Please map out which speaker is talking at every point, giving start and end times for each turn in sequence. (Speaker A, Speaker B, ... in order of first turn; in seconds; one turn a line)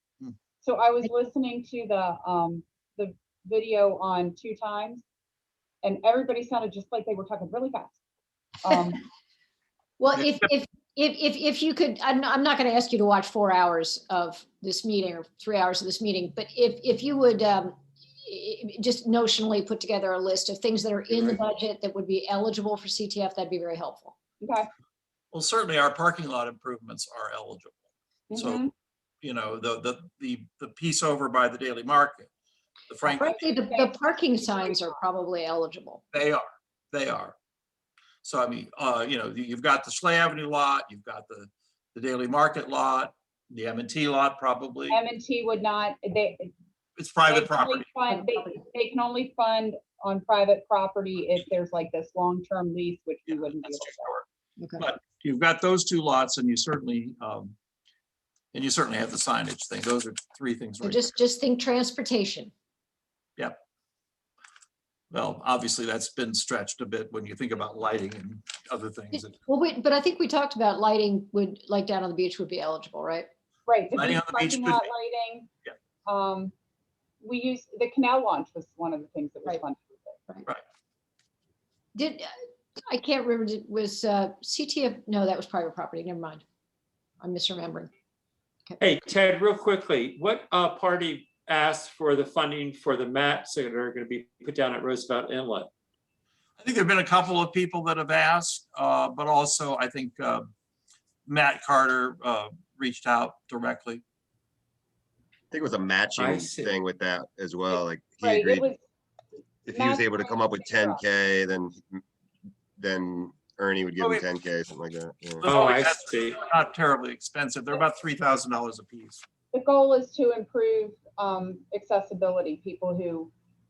Speaker A: 0.6-5.0
Speaker A: 5.8-8.0
Speaker A: 8.6-9.0
Speaker B: 10.0-24.1
Speaker A: 24.4-24.7
Speaker C: 25.3-27.8
Speaker A: 28.3-28.7
Speaker C: 28.3-28.6
Speaker C: 29.2-32.3
Speaker C: 32.9-33.5
Speaker B: 33.0-36.0
Speaker A: 33.4-35.0
Speaker C: 36.1-37.4
Speaker C: 38.2-45.0
Speaker A: 44.9-46.5
Speaker C: 47.0-47.9
Speaker A: 47.3-54.1
Speaker B: 48.1-48.6
Speaker C: 53.3-54.2
Speaker B: 54.6-54.9
Speaker C: 54.8-57.5
Speaker C: 58.5-61.2
Speaker B: 60.8-62.5
Speaker C: 65.1-69.4
Speaker B: 69.1-73.3
Speaker A: 73.7-75.5
Speaker C: 74.0-74.9
Speaker A: 76.1-76.5
Speaker A: 77.2-80.2
Speaker B: 82.0-86.4
Speaker B: 87.2-87.9
Speaker D: 88.8-95.7
Speaker C: 96.6-100.5
Speaker C: 101.3-104.0
Speaker E: 105.5-108.7
Speaker D: 106.2-106.7
Speaker A: 108.2-108.8
Speaker E: 109.7-112.0
Speaker A: 109.7-111.0
Speaker E: 112.8-115.5
Speaker C: 115.4-119.2
Speaker D: 115.4-116.4
Speaker A: 119.5-123.3